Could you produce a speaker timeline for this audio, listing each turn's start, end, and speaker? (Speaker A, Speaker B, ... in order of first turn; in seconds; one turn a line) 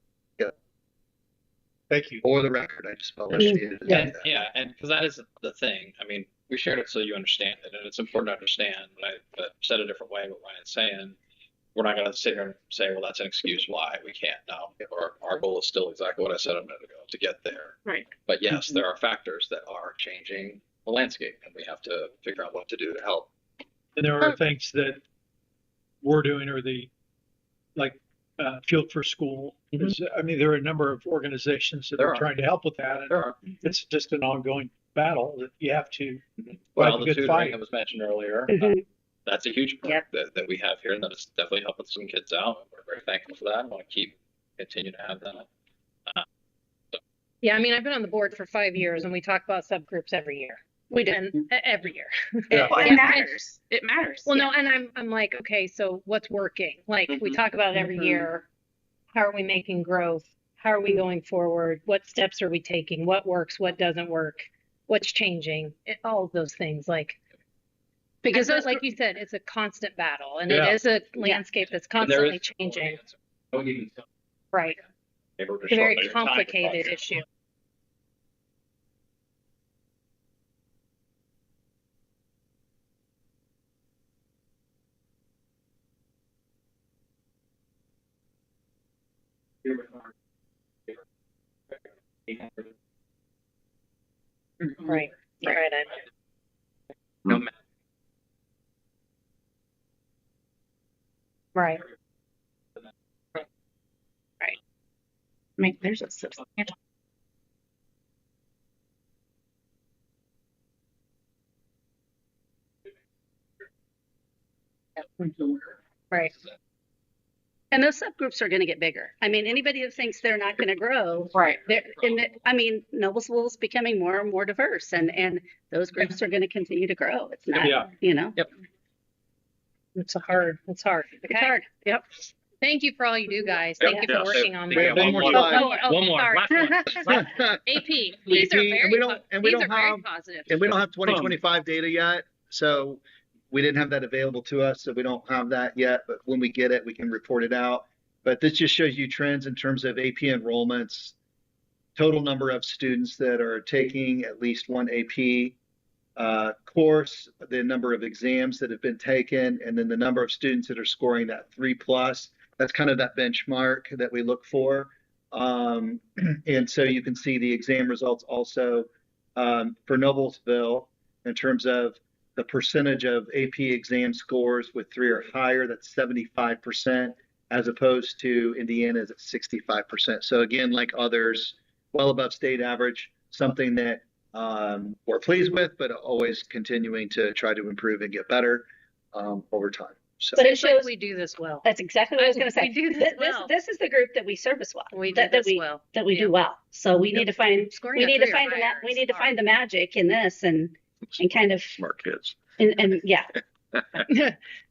Speaker A: 1.9-2.2
Speaker B: 2.2-4.4
Speaker C: 3.4-4.1
Speaker D: 3.9-11.2
Speaker D: 11.8-23.3
Speaker A: 24.0-25.0
Speaker A: 26.0-26.9
Speaker A: 27.8-36.2
Speaker D: 32.0-32.3
Speaker D: 33.1-33.4
Speaker D: 36.5-45.5
Speaker A: 36.8-37.6
Speaker C: 38.5-38.8
Speaker E: 47.4-52.7
Speaker C: 50.9-51.3
Speaker A: 52.5-52.9
Speaker C: 52.6-53.2
Speaker F: 52.7-54.4
Speaker E: 54.3-58.5
Speaker E: 59.1-67.2
Speaker C: 68.2-68.8
Speaker E: 68.3-73.0
Speaker A: 70.5-70.8
Speaker D: 72.0-72.4
Speaker D: 73.5-73.9
Speaker E: 74.5-74.8
Speaker D: 75.4-76.8
Speaker E: 75.7-77.2
Speaker D: 92.3-92.6
Speaker E: 94.8-96.0
Speaker E: 101.5-101.8
Speaker F: 105.6-106.7
Speaker E: 115.2-115.5
Speaker C: 117.7-128.4
Speaker F: 121.3-121.6
Speaker A: 127.6-127.9
Speaker E: 130.0-140.8
Speaker C: 131.3-131.7
Speaker D: 133.8-137.1
Speaker B: 134.7-135.6
Speaker A: 134.8-135.4
Speaker C: 135.2-135.9
Speaker B: 137.1-151.2
Speaker D: 141.1-141.3
Speaker B: 152.0-155.6
Speaker B: 156.2-190.4
Speaker C: 190.4-190.9
Speaker E: 190.4-191.7
Speaker C: 191.6-201.8
Speaker E: 192.2-193.5
Speaker E: 194.9-196.3
Speaker E: 197.1-199.3
Speaker C: 202.6-203.4
Speaker E: 204.1-204.4